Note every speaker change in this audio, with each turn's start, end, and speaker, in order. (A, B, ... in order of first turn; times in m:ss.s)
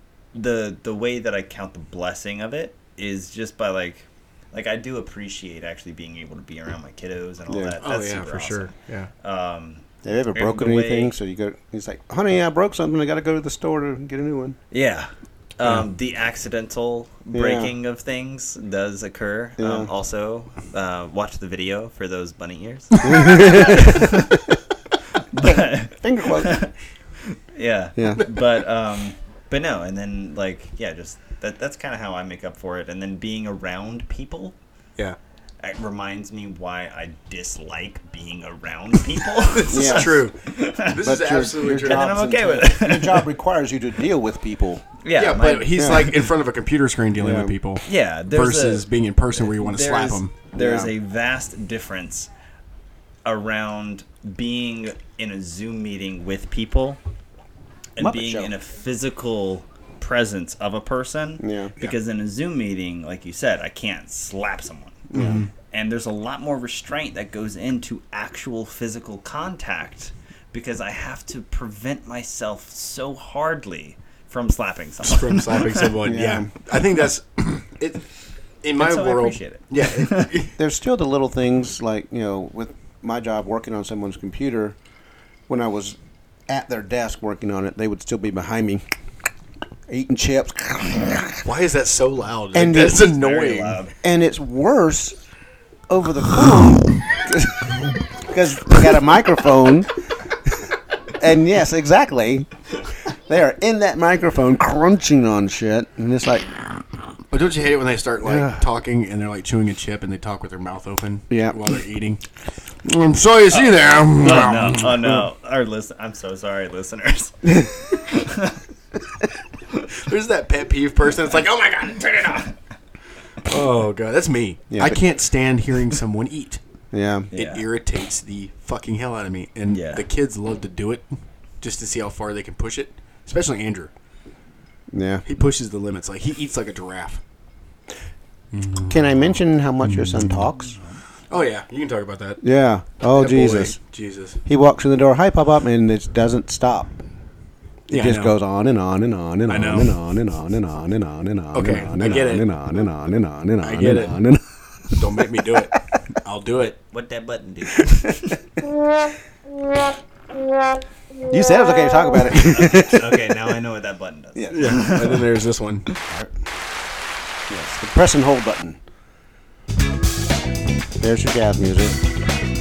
0:00.3-0:11.1 A
0:07.5-0:07.8 B
0:07.8-0:09.1 C
0:10.0-0:14.6 B
0:14.7-0:24.5 A
0:17.3-0:17.7 B
0:19.6-0:19.9 B
0:23.0-0:24.3 B
0:25.3-0:26.7 A
0:25.4-0:26.6 B
0:27.2-0:34.6 A
0:28.0-0:28.2 B
0:35.6-0:41.0 A
0:39.5-0:42.2 C
0:39.7-0:40.2 B
0:41.0-0:44.8 B
0:41.8-0:43.3 A
0:45.0-0:46.1 A
0:45.1-0:50.3 C
0:45.8-0:46.2 B
0:47.2-0:47.5 B
0:47.8-0:52.3 A
0:50.5-0:50.9 B
0:53.2-0:57.0 A
0:58.0-1:05.1 A
0:58.0-0:58.5 B
1:01.4-1:01.7 B
1:05.1-1:05.4 B
1:05.1-1:05.5 C
1:05.7-1:15.9 A
1:15.0-1:18.0 C
1:16.0-1:16.5 B
1:18.6-1:20.5 C
1:18.8-1:20.3 A
1:20.6-1:24.8 B
1:25.5-1:26.0 B
1:26.5-1:28.9 B
1:29.9-1:31.4 B
1:31.4-1:33.8 C
1:32.5-1:33.1 B
1:32.9-1:33.9 A
1:34.0-1:35.2 B
1:35.9-1:39.9 B
1:41.2-1:42.5 B
1:43.3-1:46.8 B
1:47.3-1:52.2 C
1:48.2-1:48.6 B
1:51.3-1:51.6 B
1:52.8-1:55.2 C
1:53.5-1:58.6 A
1:59.9-2:02.5 C
2:03.4-2:06.6 C
2:04.7-2:05.0 B
2:06.9-2:07.3 B
2:07.3-2:07.6 A
2:07.3-2:11.1 C
2:09.7-2:10.1 A
2:11.6-2:13.9 C
2:14.9-2:15.2 B
2:15.2-2:17.2 C
2:18.5-2:20.5 C
2:18.9-2:20.8 B
2:20.6-2:21.0 A
2:21.3-2:22.4 C
2:22.4-2:23.8 B
2:23.1-2:24.4 C
2:24.5-2:27.0 B
2:27.9-2:34.4 B
2:27.9-2:28.4 C
2:29.5-2:30.0 C
2:31.5-2:32.5 C
2:33.6-2:34.2 C
2:34.9-2:36.8 C
2:36.9-2:38.4 A
2:41.3-2:43.5 B
2:42.4-2:45.2 A
2:44.4-2:44.9 B
2:44.5-2:45.9 C
2:47.5-2:48.8 B
2:51.0-2:52.0 B